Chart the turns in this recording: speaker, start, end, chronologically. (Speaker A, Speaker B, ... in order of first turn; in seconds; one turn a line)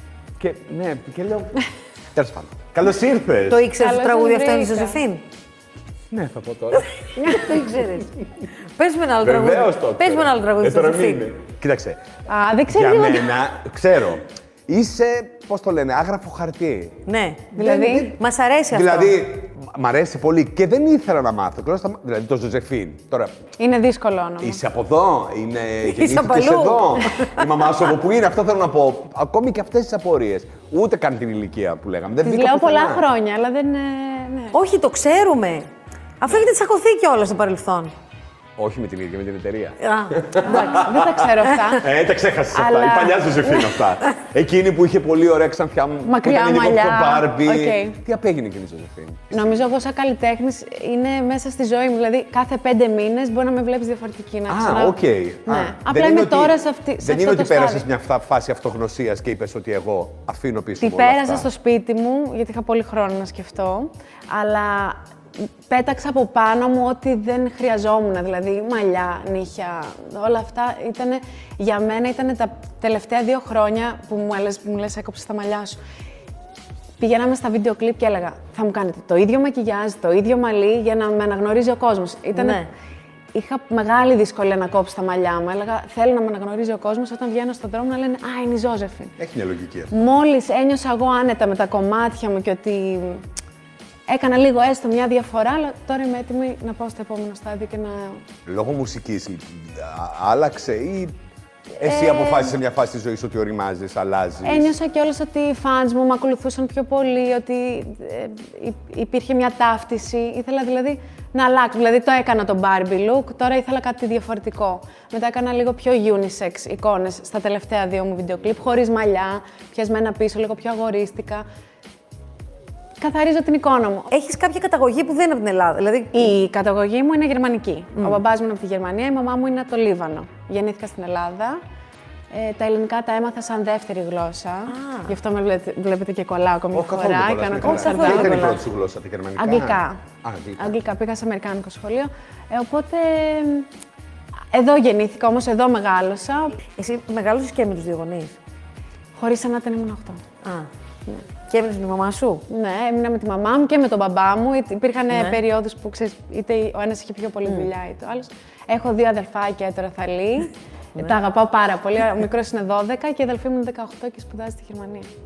Speaker A: 0.4-1.6
Speaker A: 2.1-3.7
Speaker B: 3.5-5.2
Speaker C: 3.8-5.0
Speaker A: 6.1-8.0
Speaker B: 7.2-8.1
Speaker B: 8.8-11.3
Speaker A: 9.2-12.0
Speaker C: 12.3-13.4
Speaker A: 12.7-17.0
Speaker B: 17.1-19.2
Speaker C: 17.5-18.2
Speaker A: 17.6-18.2
Speaker A: 18.7-23.3
Speaker C: 23.6-24.6
Speaker A: 24.4-33.1
Speaker B: 25.8-27.5
Speaker C: 32.2-34.6
Speaker B: 34.5-35.7
Speaker B: 36.2-37.9
Speaker A: 38.6-49.6
Speaker B: 39.8-40.9
Speaker C: 40.4-41.9
Speaker C: 42.5-43.8
Speaker C: 46.0-48.0
Speaker C: 49.3-57.9
Speaker A: 54.5-61.5
Speaker C: 60.8-65.0
Speaker C: 65.7-75.8
Speaker C: 77.0-82.7
Speaker B: 82.3-82.7
Speaker C: 83.3-89.2
Speaker A: 89.2-90.0
Speaker C: 89.9-93.2
Speaker C: 94.1-98.2
Speaker A: 98.5-101.2
Speaker C: 101.8-102.6
Speaker A: 101.8-104.7
Speaker C: 104.4-121.5
Speaker C: 123.0-124.1
Speaker B: 124.1-126.3
Speaker C: 126.1-131.6
Speaker C: 132.3-138.5
Speaker B: 134.7-135.2
Speaker A: 136.7-140.8
Speaker B: 137.6-138.6
Speaker C: 139.4-140.0
Speaker C: 140.6-143.7
Speaker C: 144.5-146.6
Speaker B: 146.8-148.3
Speaker C: 149.2-150.2
Speaker B: 151.5-152.4
Speaker C: 152.5-165.1
Speaker B: 155.1-155.4